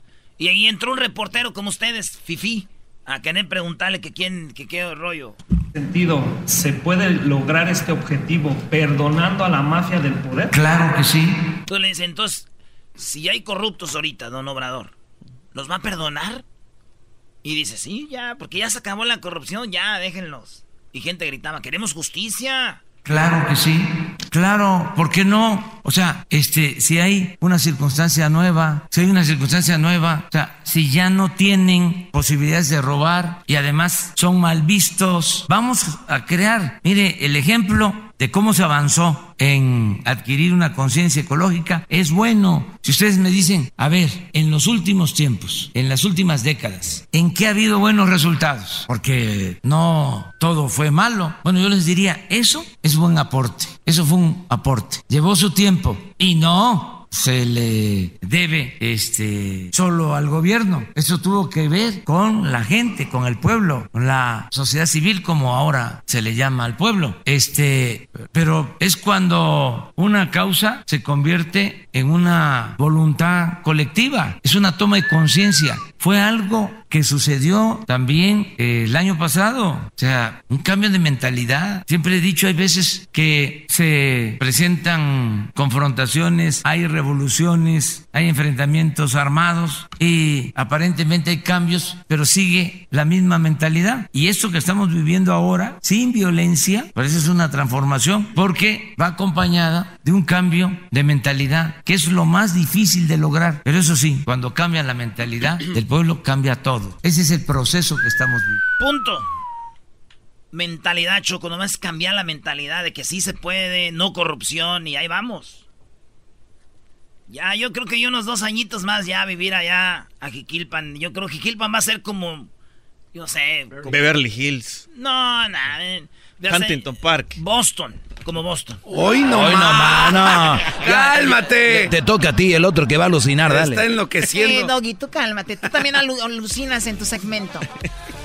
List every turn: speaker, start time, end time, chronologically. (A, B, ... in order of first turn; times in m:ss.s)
0:00.4-0:05.4 A
0:05.7-0:10.6 B
0:10.5-0:11.4 C
0:11.7-0:14.9 A
0:15.5-0:16.4 A
0:17.4-0:22.8 A
0:23.0-1:48.6 C
1:48.8-1:49.3 A
1:50.5-1:55.6 A
1:57.3-2:02.5 A
2:03.1-2:03.9 A
2:03.8-2:04.8 D
2:04.9-2:08.8 A
2:06.5-2:07.4 D
2:08.8-2:10.1 E
2:09.3-2:13.9 F
2:10.8-2:11.9 E
2:13.4-2:14.7 E
2:14.2-2:17.6 G